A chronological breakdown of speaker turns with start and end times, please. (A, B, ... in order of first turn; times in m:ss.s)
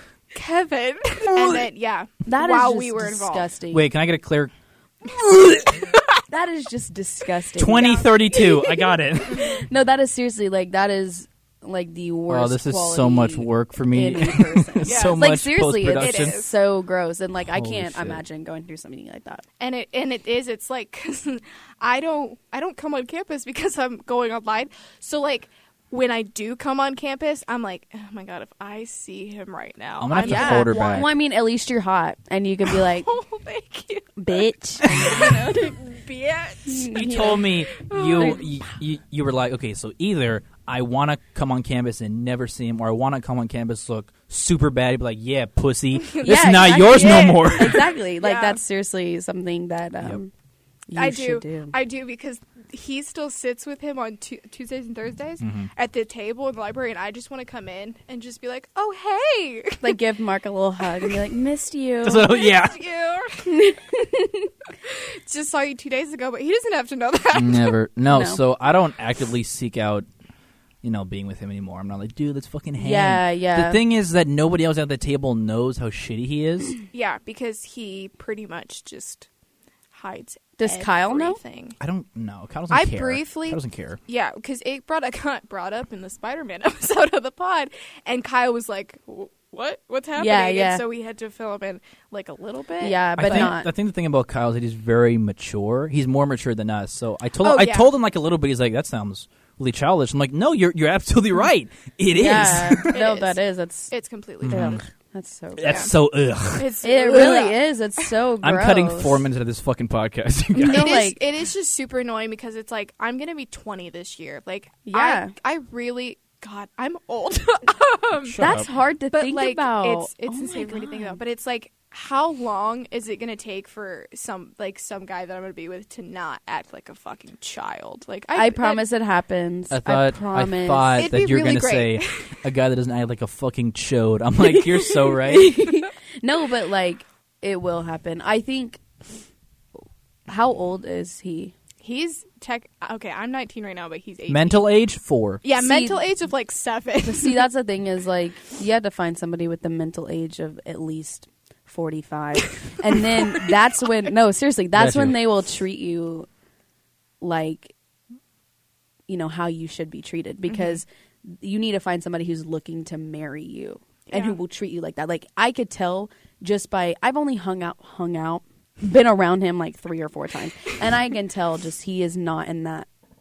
0:00.3-0:03.5 A
0:01.3-0:01.6 B
0:02.2-0:03.9 C
0:03.7-0:04.5 B
0:05.0-0:05.9 B
0:06.3-0:08.5 C
0:07.6-0:09.6 B
0:07.7-0:08.4 A
0:09.3-0:19.4 C
0:12.3-0:16.4 B
0:14.8-0:15.3 A
0:15.9-0:16.5 A
0:17.5-0:18.2 B
0:19.6-0:30.9 A
0:30.0-0:31.1 B
0:30.2-0:33.1 C
0:32.8-0:38.4 A
0:34.2-0:35.8 C
0:36.6-0:37.5 C
0:36.9-0:47.9 B
0:38.2-0:38.4 C
0:46.0-0:48.6 A
0:46.2-0:50.3 C
0:50.9-0:51.8 C
0:51.0-1:00.0 A
0:55.4-0:55.7 B
0:59.8-1:02.3 C
1:02.0-1:02.8 B
1:02.2-1:03.6 A
1:03.4-1:04.5 C
1:04.8-1:07.8 A
1:07.3-1:10.1 B
1:08.0-1:08.4 C
1:10.8-1:16.7 B
1:12.8-1:13.8 C
1:16.9-1:19.3 A
1:19.9-1:21.8 A
1:20.6-1:21.4 C
1:21.8-1:24.0 B
1:22.7-1:33.5 A
1:30.2-1:30.8 C
1:32.8-1:33.7 C
1:33.2-1:42.9 B
1:37.4-1:37.9 A
1:42.1-1:43.9 C
1:42.9-1:44.8 A
1:44.4-1:44.8 B
1:44.4-1:45.9 C
1:45.6-1:46.8 B
1:45.6-1:45.9 A
1:46.5-1:48.1 A
1:46.8-1:49.2 C
1:48.4-1:51.0 B
1:50.5-1:51.2 C
1:50.6-1:58.5 A
1:54.9-1:55.3 C
1:58.2-1:58.7 B
1:58.4-2:01.2 C
1:59.1-2:08.8 A
2:08.3-2:11.1 C
2:09.7-2:15.6 B
2:11.0-2:12.4 A
2:15.1-2:18.8 C
2:20.3-2:21.5 C
2:21.8-2:24.6 A
2:24.3-2:25.4 B
2:25.4-2:27.5 A
2:25.5-2:26.0 C
2:27.0-2:36.3 C
2:34.7-2:35.2 B
2:37.2-2:37.7 C
2:39.1-2:52.9 C
2:40.5-2:40.8 A
2:44.1-2:44.4 A